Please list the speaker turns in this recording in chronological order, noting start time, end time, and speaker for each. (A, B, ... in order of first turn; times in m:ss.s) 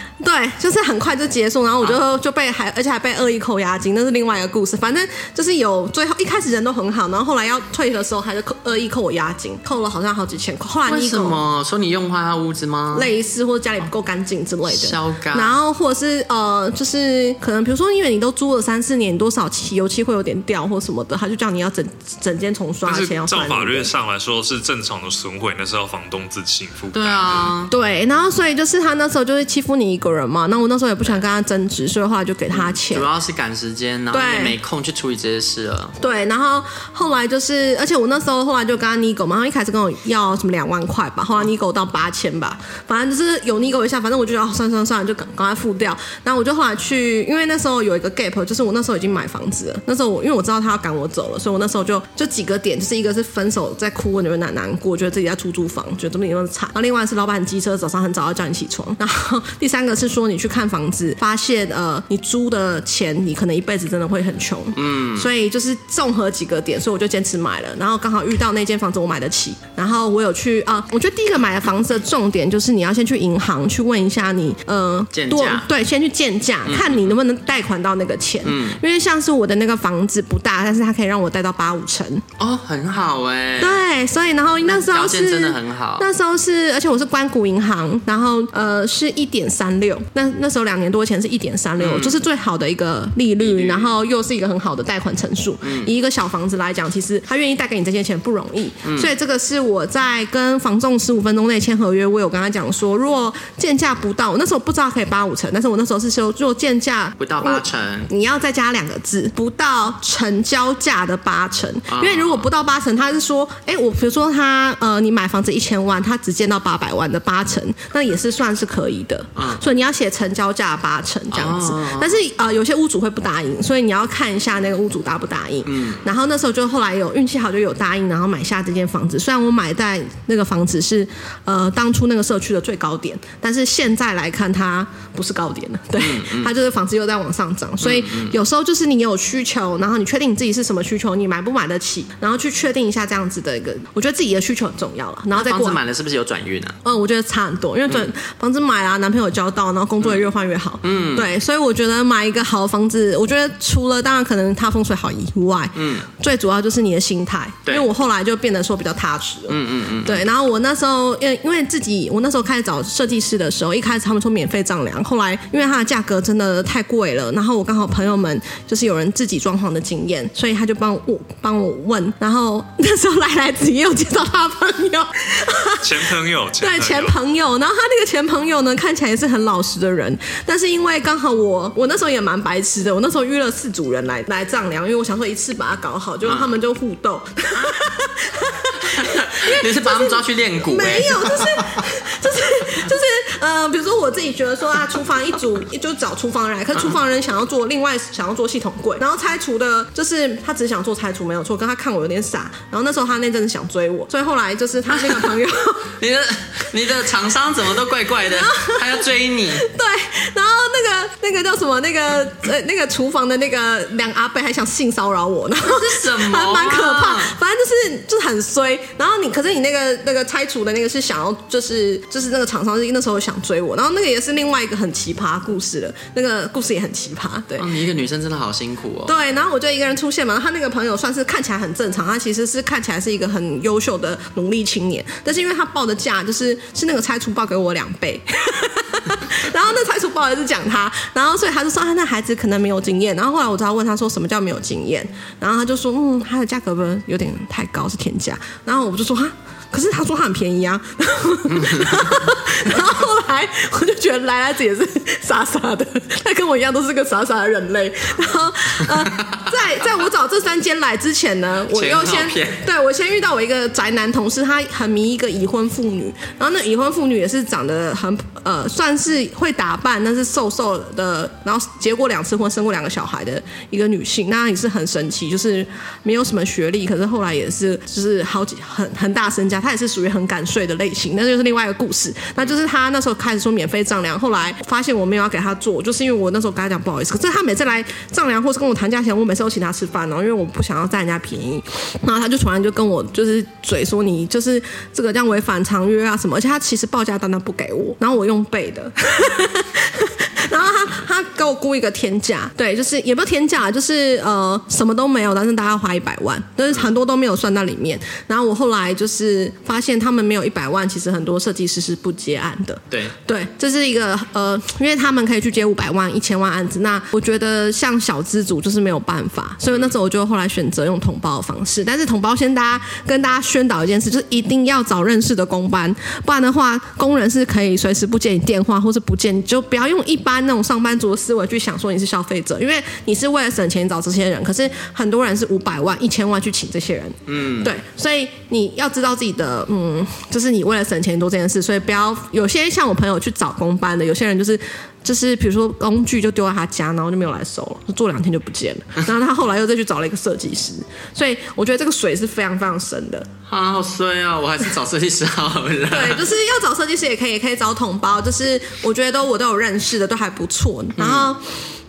0:00.2-0:11.4 A
0:10.9-0:13.1 B
0:12.9-0:23.9 A
0:14.7-0:15.6 B
0:22.8-0:27.5 C
0:26.9-0:27.7 B
0:27.7-0:33.1 A
0:32.5-0:36.0 B
0:34.1-0:34.6 A
0:36.0-1:22.2 A
1:04.8-1:05.3 B
1:15.1-1:15.7 B
1:16.6-1:17.1 B
1:18.4-1:18.8 B
1:22.4-1:23.8 B
1:23.6-2:25.8 A
1:24.6-1:26.1 B
1:31.8-1:32.2 B
1:33.4-1:33.9 B
1:35.6-1:35.9 B
1:38.8-1:39.1 B
1:47.2-1:48.1 B
1:51.9-1:52.5 B
1:59.4-1:59.6 B
2:01.3-2:02.2 B
2:05.6-2:06.0 B
2:16.0-2:16.5 B
2:17.8-2:18.4 B
2:25.3-2:26.8 B
2:26.8-2:55.9 A
2:30.8-2:31.3 B
2:35.8-2:36.1 B
2:39.5-2:40.2 B
2:55.8-2:57.2 C
2:56.6-3:25.9 A
3:06.2-3:06.5 B
3:08.9-3:11.2 B
3:24.9-3:25.4 B
3:26.0-3:29.6 B
3:28.2-3:29.0 A
3:29.6-3:47.7 A
3:35.6-3:37.3 B
3:47.6-3:49.1 B
3:49.0-5:53.3 A
4:21.7-4:22.6 B
5:12.9-5:13.2 B
5:37.3-5:37.7 B
5:53.5-5:56.2 B
5:55.9-6:01.4 A
6:01.0-6:01.3 B